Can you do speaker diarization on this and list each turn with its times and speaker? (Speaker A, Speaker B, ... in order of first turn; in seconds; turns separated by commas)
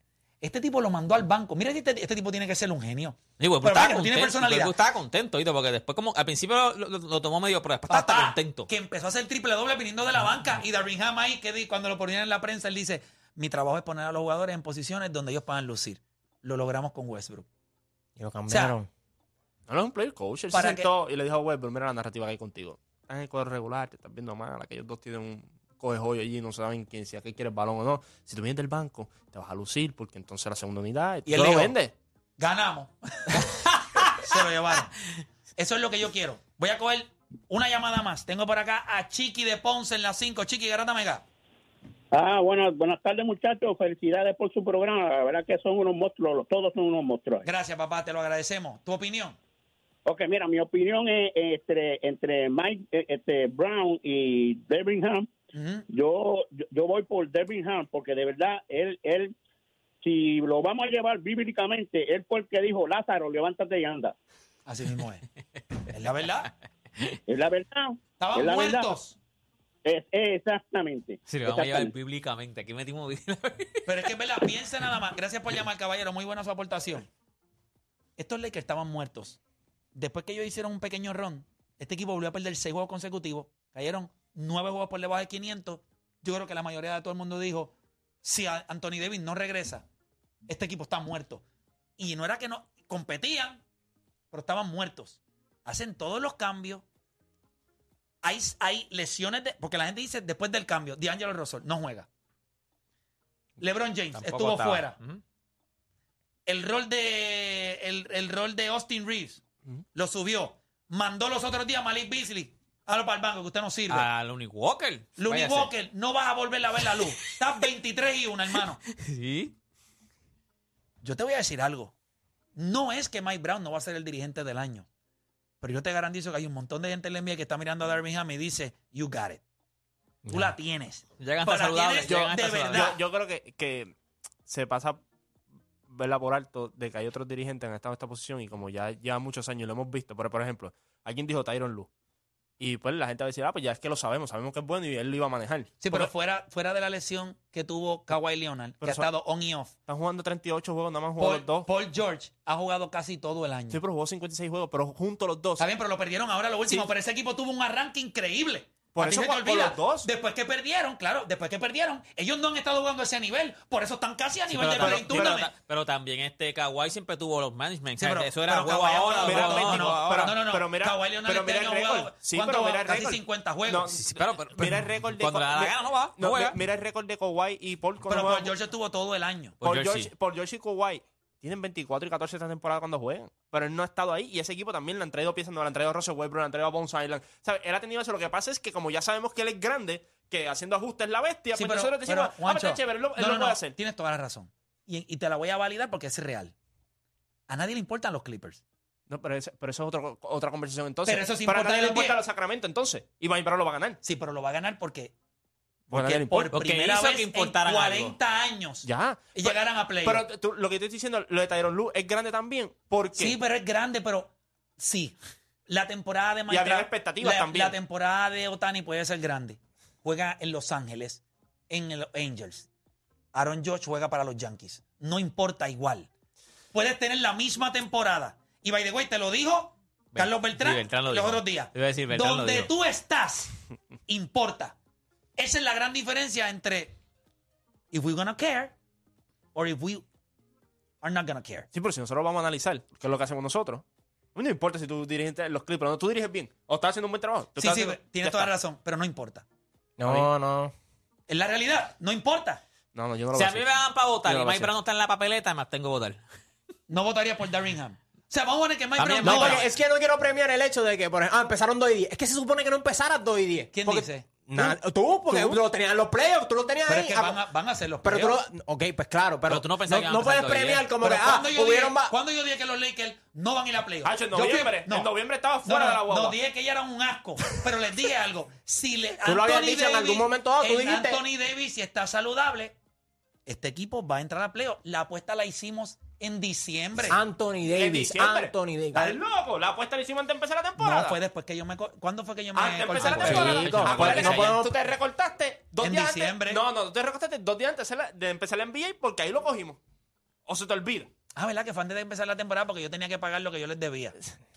Speaker A: 0.4-4.7, Speaker B: 3.4-8.7, Speaker A: 7.9-17.5, Speaker C: 18.2-18.9, Speaker A: 18.5-18.8, Speaker D: 19.7-31.9, Speaker A: 20.5-20.9, Speaker A: 31.3-31.8, Speaker A: 32.4-35.0, Speaker A: 35.6-41.2, Speaker E: 42.1-47.5, Speaker A: 47.5-49.4, Speaker E: 50.1-55.3, Speaker A: 55.5-55.9, Speaker E: 55.9-59.4, Speaker E: 60.0-64.2, Speaker A: 64.7-65.2, Speaker A: 65.9-66.5, Speaker E: 67.3-68.9, Speaker A: 68.2-69.2, Speaker E: 69.8-71.9, Speaker B: 71.3-74.1, Speaker A: 73.9-77.1, Speaker A: 78.2-79.4, Speaker A: 80.0-89.8, Speaker A: 90.5-91.4, Speaker A: 92.0-93.6, Speaker A: 94.3-96.8, Speaker A: 98.2-102.1, Speaker A: 103.6-105.0, Speaker B: 104.2-105.2, Speaker A: 106.5-109.4, Speaker A: 109.9-114.1, Speaker B: 113.9-115.7, Speaker A: 115.2-118.8, Speaker B: 118.9-119.5, Speaker A: 121.0-121.9, Speaker A: 122.6-124.9, Speaker A: 125.6-129.4, Speaker A: 130.3-133.0, Speaker B: 131.2-132.9, Speaker D: 132.1-133.9, Speaker D: 134.5-135.0, Speaker D: 135.9-141.9, Speaker D: 142.6-146.1, Speaker A: 145.8-149.8, Speaker D: 149.9-151.7, Speaker A: 151.2-153.8, Speaker D: 153.7-155.7, Speaker A: 155.6-165.5, Speaker D: 158.9-160.1, Speaker B: 164.5-170.4, Speaker D: 164.5-165.5, Speaker A: 168.0-174.0, Speaker D: 169.2-178.5, Speaker B: 174.0-176.6, Speaker A: 178.1-179.6, Speaker B: 179.6-180.1, Speaker D: 179.6-193.8, Speaker A: 191.6-196.5, Speaker A: 197.5-198.6, Speaker D: 199.1-204.0, Speaker A: 201.1-202.2, Speaker A: 204.0-205.1, Speaker D: 205.9-206.5, Speaker A: 205.9-210.2, Speaker B: 206.5-208.2, Speaker D: 208.8-213.4, Speaker A: 213.1-215.2, Speaker A: 215.7-222.7, Speaker D: 216.5-217.8, Speaker A: 223.3-226.1, Speaker A: 226.7-233.6, Speaker B: 230.1-232.7, Speaker A: 234.1-234.8, Speaker A: 235.4-237.0, Speaker A: 237.9-238.8, Speaker A: 239.5-240.0, Speaker A: 241.0-241.7, Speaker D: 241.7-243.8, Speaker D: 244.3-248.5, Speaker A: 247.6-249.4, Speaker C: 250.0-250.7, Speaker A: 251.3-252.6, Speaker D: 252.9-254.7, Speaker B: 253.3-256.2, Speaker A: 256.9-259.6, Speaker B: 259.0-259.7, Speaker C: 259.2-267.4, Speaker A: 263.7-264.3, Speaker D: 265.3-265.6, Speaker A: 266.9-268.4, Speaker C: 268.0-272.1, Speaker B: 269.5-270.9, Speaker A: 271.0-275.1, Speaker D: 274.0-276.4, Speaker A: 275.6-282.8, Speaker C: 279.2-281.2, Speaker A: 283.5-287.2, Speaker C: 287.1-289.2, Speaker D: 287.7-291.2, Speaker A: 290.8-294.4, Speaker D: 292.5-299.8, Speaker B: 292.9-294.6, Speaker C: 293.1-294.7, Speaker A: 295.8-296.6, Speaker D: 300.5-301.1, Speaker A: 301.4-304.1